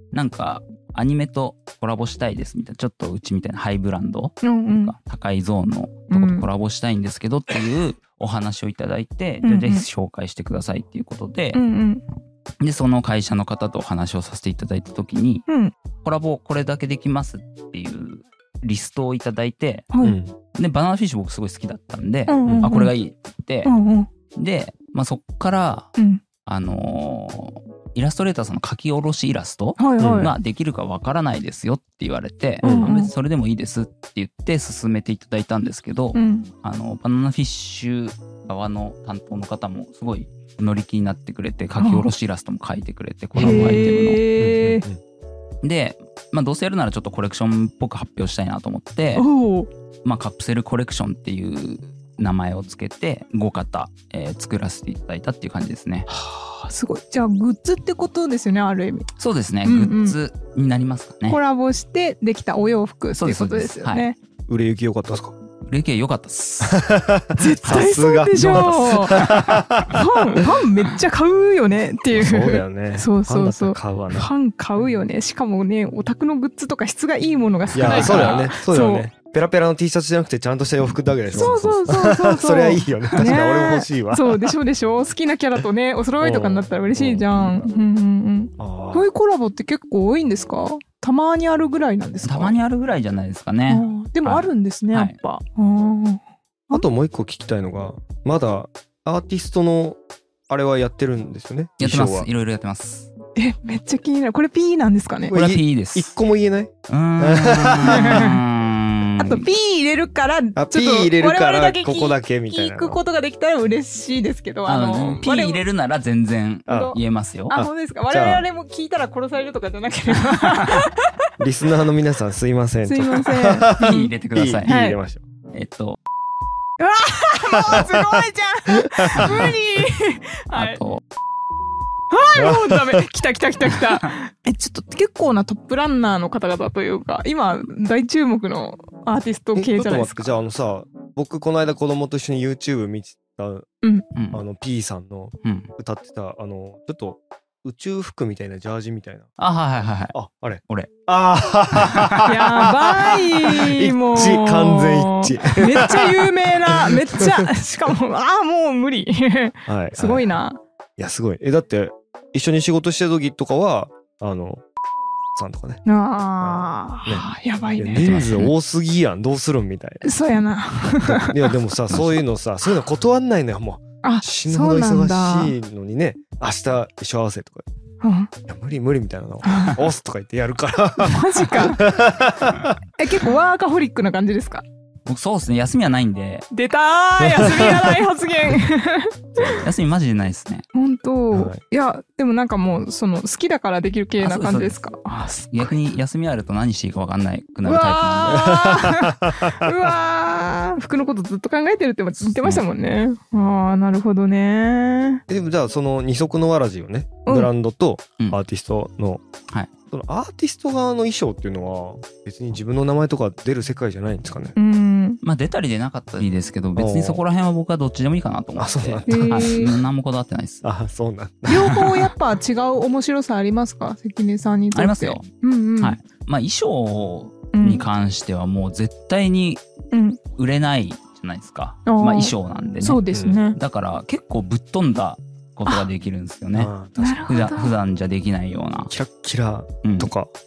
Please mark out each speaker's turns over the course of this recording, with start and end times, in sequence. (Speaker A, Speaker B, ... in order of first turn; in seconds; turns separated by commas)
Speaker A: 0.1-11.6, Speaker B: 4.4-4.9, Speaker B: 6.1-6.5, Speaker B: 9.4-9.8, Speaker B: 11.5-12.0, Speaker A: 12.6-15.5, Speaker B: 15.5-15.7, Speaker A: 16.0-19.9, Speaker B: 19.9-20.2, Speaker C: 20.0-20.3, Speaker A: 20.5-23.7, Speaker B: 22.3-22.9, Speaker B: 23.6-24.1, Speaker A: 24.3-25.9, Speaker B: 26.0-26.2, Speaker A: 26.4-44.2, Speaker B: 29.8-30.3, Speaker C: 30.0-30.3, Speaker B: 32.6-33.1, Speaker C: 32.6-32.9, Speaker B: 36.1-36.5, Speaker B: 41.8-42.1, Speaker C: 43.3-45.0, Speaker B: 43.4-44.8, Speaker A: 45.6-49.2, Speaker B: 49.1-49.7, Speaker A: 50.0-56.1, Speaker B: 56.1-59.1, Speaker A: 59.2-61.4, Speaker B: 59.6-60.1, Speaker B: 61.3-64.2, Speaker A: 63.2-64.1, Speaker C: 64.5-65.3, Speaker A: 65.6-66.9, Speaker C: 66.6-70.6, Speaker B: 67.4-79.1, Speaker A: 69.1-69.8, Speaker C: 72.1-74.3, Speaker C: 77.7-84.5, Speaker A: 77.8-78.5, Speaker B: 81.3-92.6, Speaker C: 86.2-87.7, Speaker C: 88.6-89.0, Speaker A: 92.2-95.2, Speaker B: 93.7-96.8, Speaker C: 96.7-102.3, Speaker A: 101.8-103.1, Speaker B: 103.3-105.3, Speaker C: 105.3-108.3, Speaker A: 105.3-106.1, Speaker A: 106.9-109.5, Speaker B: 107.8-108.4, Speaker B: 109.2-115.6, Speaker C: 110.5-113.0, Speaker A: 114.7-117.5, Speaker C: 116.7-117.0, Speaker B: 116.7-117.0, Speaker B: 117.5-121.1, Speaker C: 117.5-118.4, Speaker A: 120.5-120.8, Speaker C: 121.4-125.2, Speaker B: 122.8-124.1, Speaker A: 123.8-124.7, Speaker B: 124.7-125.0, Speaker A: 125.5-126.0, Speaker B: 126.8-130.8, Speaker C: 127.5-129.6, Speaker A: 130.5-131.0, Speaker B: 132.1-140.3, Speaker C: 132.3-133.0, Speaker C: 139.5-143.7, Speaker B: 143.8-144.1, Speaker A: 144.1-144.4, Speaker C: 144.3-149.3, Speaker A: 145.4-145.7, Speaker A: 149.4-150.1, Speaker C: 150.1-157.5, Speaker A: 151.7-152.3, Speaker B: 152.2-160.6, Speaker C: 159.7-160.3, Speaker C: 161.0-164.6, Speaker C: 165.3-165.8, Speaker B: 165.8-168.2, Speaker C: 166.4-170.1, Speaker A: 167.9-168.5, Speaker B: 170.0-171.6, Speaker C: 171.0-177.6, Speaker A: 171.9-172.2, Speaker B: 174.0-175.6, Speaker B: 178.0-178.3, Speaker C: 178.5-182.8, Speaker B: 179.4-179.8, Speaker B: 181.0-181.8, Speaker B: 183.0-184.6, Speaker A: 185.1-186.5, Speaker B: 186.5-189.6, Speaker C: 187.2-188.0, Speaker A: 189.5-190.6, Speaker B: 190.7-195.8, Speaker C: 191.3-191.6, Speaker A: 194.2-194.8, Speaker A: 195.5-198.6, Speaker B: 197.6-205.2, Speaker C: 198.3-199.8, Speaker A: 202.4-202.6, Speaker C: 205.3-209.2, Speaker C: 209.9-214.5, Speaker B: 214.6-215.2, Speaker A: 215.2-220.6, Speaker C: 216.8-217.2, Speaker C: 218.6-219.7, Speaker B: 219.1-219.7, Speaker C: 220.6-221.9, Speaker B: 221.5-226.0, Speaker A: 224.7-225.3, Speaker A: 225.8-229.6, Speaker B: 227.5-227.8, Speaker B: 229.9-230.2, Speaker A: 230.3-236.7, Speaker B: 231.9-233.6, Speaker C: 233.1-233.4, Speaker C: 236.5-237.3, Speaker B: 237.0-237.8, Speaker A: 237.2-238.9, Speaker C: 238.9-240.3, Speaker A: 239.8-240.1